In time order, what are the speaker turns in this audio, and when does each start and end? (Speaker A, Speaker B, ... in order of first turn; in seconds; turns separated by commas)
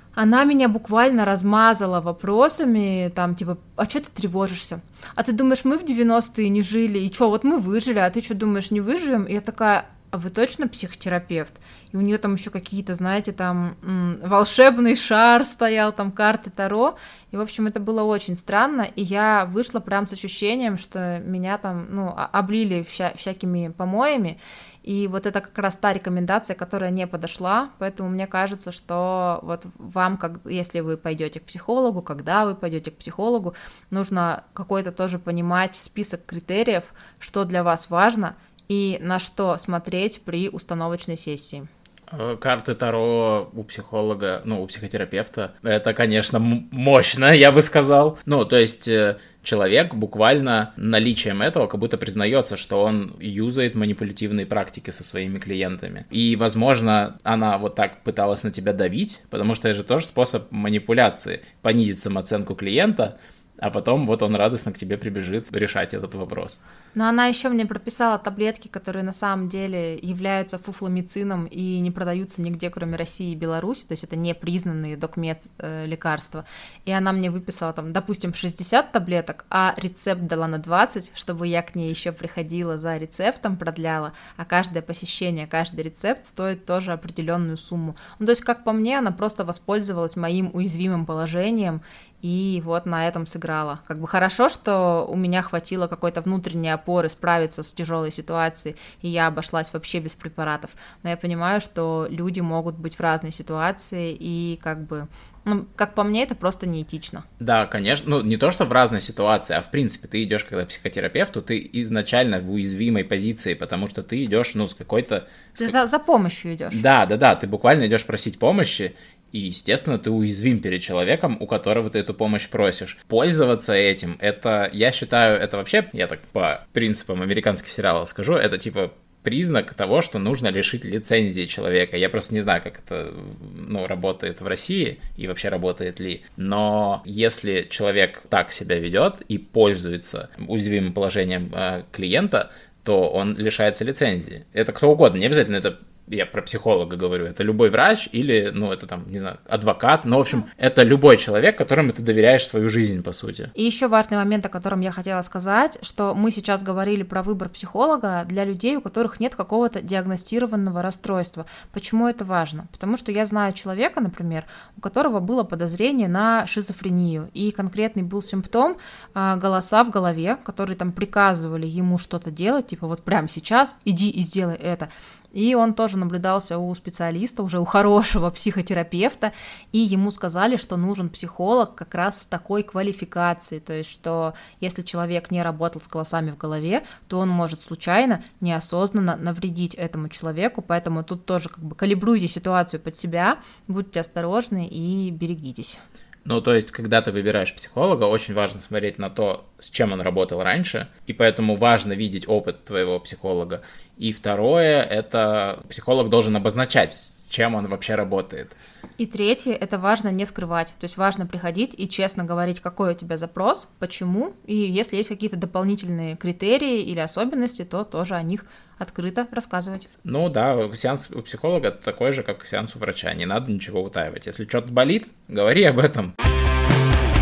Speaker A: 0.1-41.7, Speaker B: 42.1-66.6, Speaker A: 66.9-107.2, Speaker B: 107.4-115.7, Speaker A: 115.5-116.8, Speaker B: 116.7-153.5, Speaker A: 153.5-195.8, Speaker B: 196.2-208.6, Speaker A: 209.0-219.9, Speaker B: 220.0-226.1